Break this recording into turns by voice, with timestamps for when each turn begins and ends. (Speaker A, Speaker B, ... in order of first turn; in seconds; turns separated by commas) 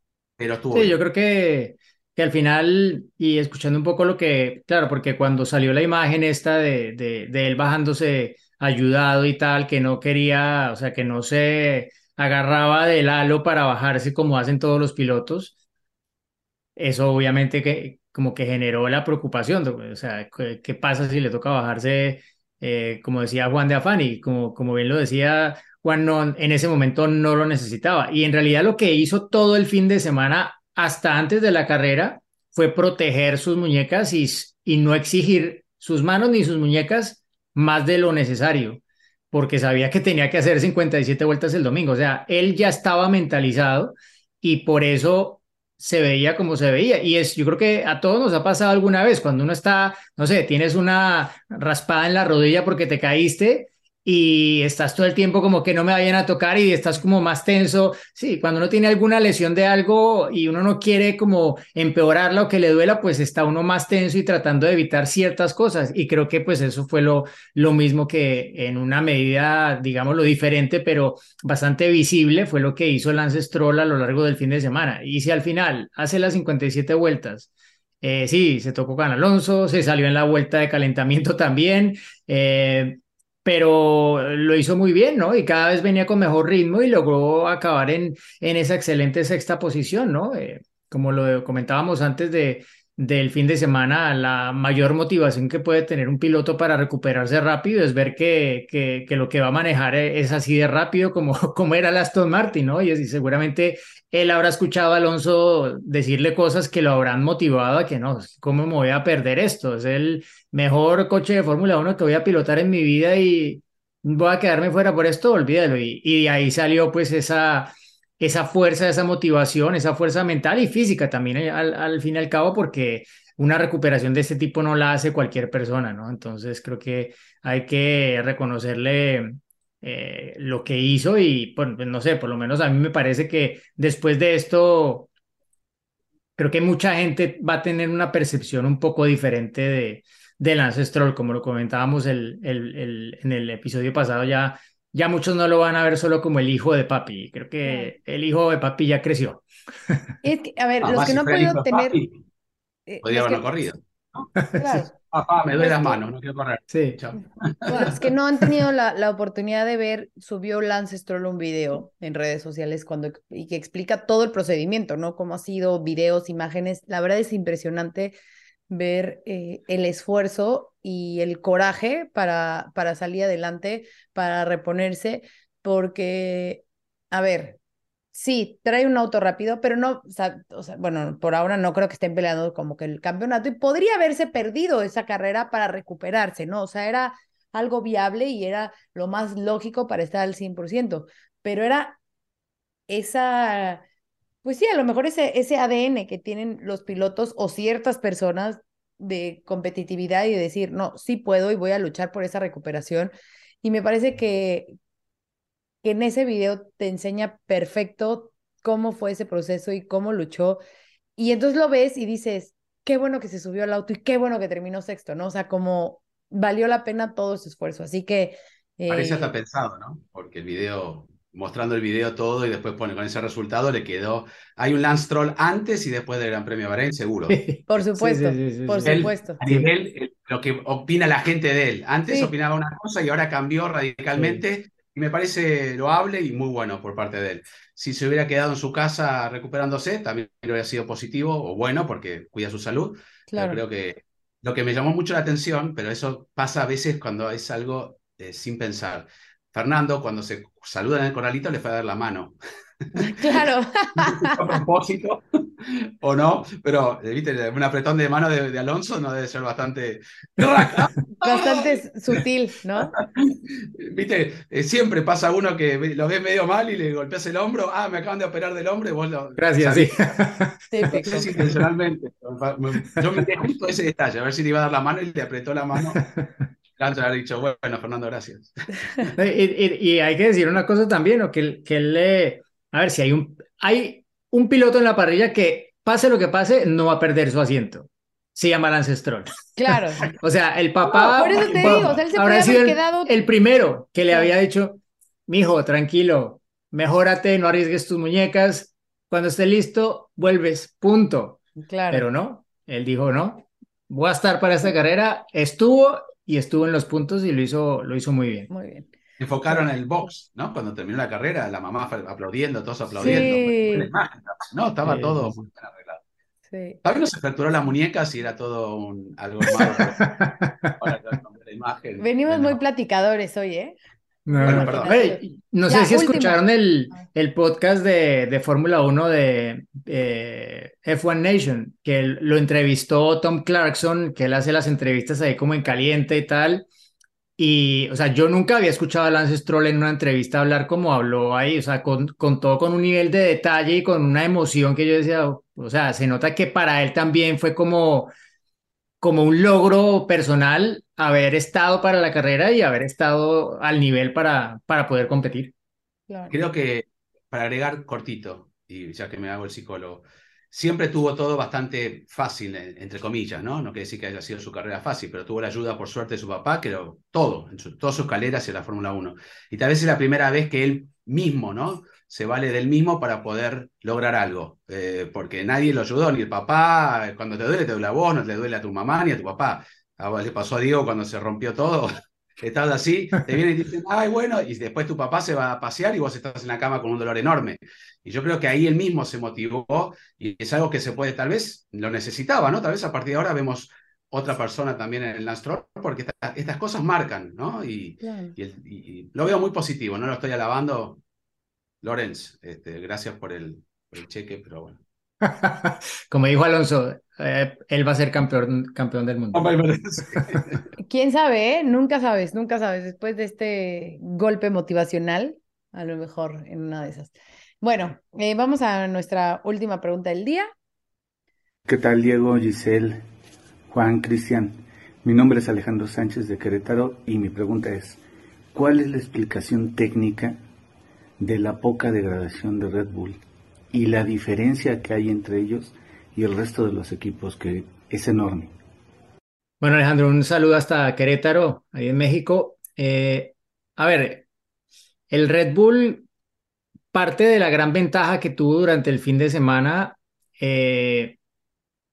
Speaker A: 0.4-0.9, Speaker B: 0.7-15.5, Speaker B: 16.8-38.8, Speaker B: 39.3-77.5, Speaker B: 78.0-135.1, Speaker B: 136.4-150.0, Speaker C: 147.6-147.9, Speaker C: 150.2-151.9, Speaker A: 150.8-152.1, Speaker C: 152.9-153.7, Speaker A: 153.0-154.3, Speaker B: 154.4-154.6, Speaker C: 154.6-154.9, Speaker A: 155.1-158.0, Speaker C: 155.6-156.0, Speaker B: 156.7-157.0, Speaker C: 157.7-168.1, Speaker C: 168.7-177.6, Speaker C: 178.1-192.0, Speaker C: 192.9-193.8, Speaker C: 194.4-204.7, Speaker C: 205.8-210.6, Speaker C: 211.2-219.3, Speaker A: 218.9-227.4, Speaker B: 227.3-229.0, Speaker C: 227.7-229.6, Speaker A: 228.8-252.3, Speaker C: 232.1-232.3, Speaker B: 234.2-234.4, Speaker C: 243.3-243.6, Speaker C: 253.0-254.5, Speaker A: 253.0-253.3, Speaker A: 254.0-262.1, Speaker C: 261.2-262.9, Speaker A: 262.9-270.1, Speaker B: 269.4-271.6, Speaker C: 270.7-271.2, Speaker A: 270.9-276.0, Speaker B: 276.0-276.4, Speaker A: 276.8-279.1, Speaker B: 279.2-289.3, Speaker C: 289.6-290.0, Speaker B: 290.1-308.5, Speaker C: 290.9-293.1, Speaker A: 291.3-292.0, Speaker C: 301.6-302.1, Speaker C: 308.5-308.9, Speaker A: 309.2-316.0, Speaker C: 312.9-313.9, Speaker B: 314.8-315.4, Speaker C: 316.5-316.8, Speaker A: 316.8-320.1, Speaker B: 319.5-320.8, Speaker A: 320.8-322.6, Speaker C: 322.0-323.8, Speaker B: 324.2-336.6, Speaker C: 324.3-326.4, Speaker A: 324.4-325.0, Speaker B: 337.4-348.1, Speaker B: 349.0-355.5, Speaker C: 356.1-356.3, Speaker A: 356.3-381.9, Speaker A: 382.4-401.0, Speaker C: 398.0-398.3, Speaker A: 401.8-404.8, Speaker B: 405.2-409.6, Speaker A: 409.3-410.6, Speaker C: 410.8-420.5, Speaker D: 421.6-423.0, Speaker D: 423.7-428.0, Speaker D: 428.5-430.4, Speaker D: 431.2-433.2, Speaker D: 433.7-438.5, Speaker B: 439.6-444.2, Speaker B: 445.1-446.1, Speaker B: 446.9-451.1